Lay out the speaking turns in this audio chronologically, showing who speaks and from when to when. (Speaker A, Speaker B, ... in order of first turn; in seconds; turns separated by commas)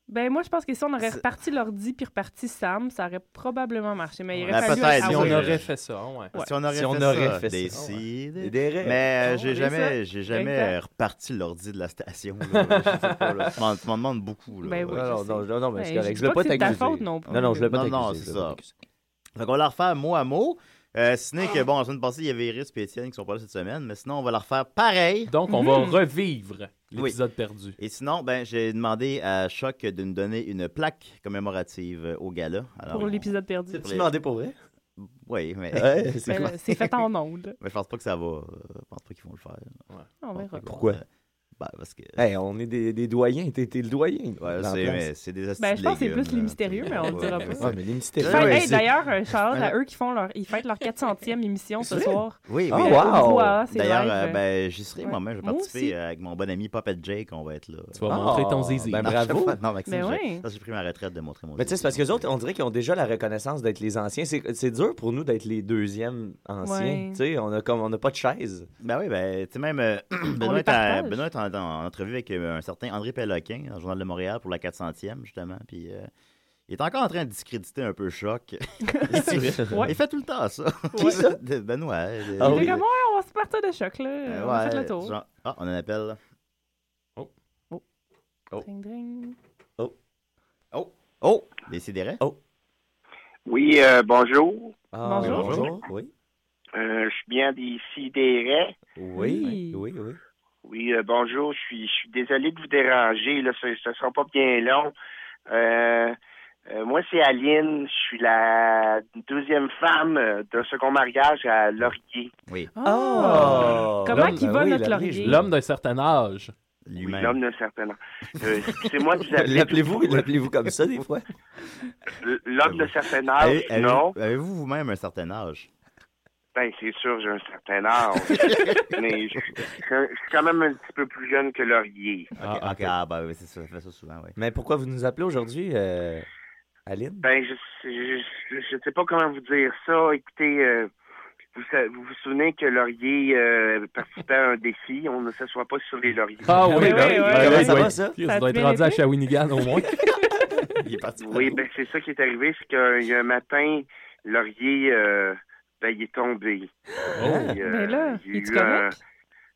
Speaker A: 0.1-5.7, Speaker B: 4.4-6.3, Speaker C: 4.5-5.7, Speaker C: 6.3-15.1, Speaker D: 6.7-7.9, Speaker D: 8.4-9.0, Speaker A: 9.2-10.8, Speaker B: 12.5-13.6, Speaker A: 14.6-17.7, Speaker D: 14.9-18.7, Speaker C: 17.3-18.6, Speaker C: 19.4-25.3, Speaker B: 25.3-27.8, Speaker A: 25.5-26.0, Speaker C: 27.8-33.3, Speaker A: 32.9-33.8, Speaker D: 33.7-34.5, Speaker C: 33.8-34.1, Speaker C: 35.0-36.9, Speaker D: 35.7-36.5, Speaker A: 36.3-37.6, Speaker C: 37.6-39.8, Speaker A: 40.2-40.6, Speaker C: 40.4-41.0, Speaker D: 40.7-41.0, Speaker C: 41.6-42.2, Speaker D: 42.2-45.1, Speaker C: 44.4-48.9, Speaker A: 45.6-47.7, Speaker D: 47.6-48.8, Speaker A: 48.2-54.4, Speaker C: 52.5-53.1, Speaker D: 52.7-53.6, Speaker C: 53.7-58.4, Speaker A: 55.0-55.9, Speaker B: 58.0-59.1, Speaker D: 58.1-59.6, Speaker C: 59.0-62.2, Speaker A: 59.9-60.5, Speaker D: 61.6-68.7, Speaker A: 66.6-67.2, Speaker C: 68.8-76.1, Speaker A: 70.4-71.2, Speaker C: 76.7-82.8, Speaker A: 78.9-79.9, Speaker D: 79.1-79.8, Speaker A: 80.9-81.2, Speaker D: 81.0-81.4, Speaker D: 82.4-82.8, Speaker A: 82.4-85.2, Speaker C: 84.3-86.2, Speaker A: 88.6-89.4, Speaker C: 90.7-92.2, Speaker E: 93.5-94.8, Speaker D: 94.9-96.1, Speaker A: 95.0-95.7, Speaker C: 95.3-95.6, Speaker E: 96.8-98.8, Speaker D: 99.0-100.2, Speaker A: 99.2-99.8, Speaker E: 100.7-104.9, Speaker E: 105.5-106.2, Speaker E: 106.7-112.3, Speaker A: 112.8-115.4, Speaker D: 112.8-115.5, Speaker B: 113.2-114.5, Speaker C: 113.4-113.8, Speaker B: 115.2-116.5, Speaker C: 116.9-117.4, Speaker E: 117.0-120.3, Speaker D: 119.4-121.2, Speaker E: 122.2-124.1, Speaker C: 122.7-125.7, Speaker E: 126.5-132.3, Speaker C: 128.4-128.7, Speaker C: 132.4-134.4, Speaker B: 132.4-132.9, Speaker D: 134.4-136.3, Speaker D: 136.9-137.2, Speaker E: 137.2-140.9, Speaker E: 141.6-146.6, Speaker B: 146.5-150.0, Speaker D: 146.6-148.2, Speaker A: 146.7-149.0, Speaker A: 149.8-150.7, Speaker D: 150.8-151.6, Speaker E: 151.2-156.7, Speaker B: 157.2-157.5, Speaker D: 157.2-157.6, Speaker E: 157.4-158.9, Speaker A: 157.6-159.0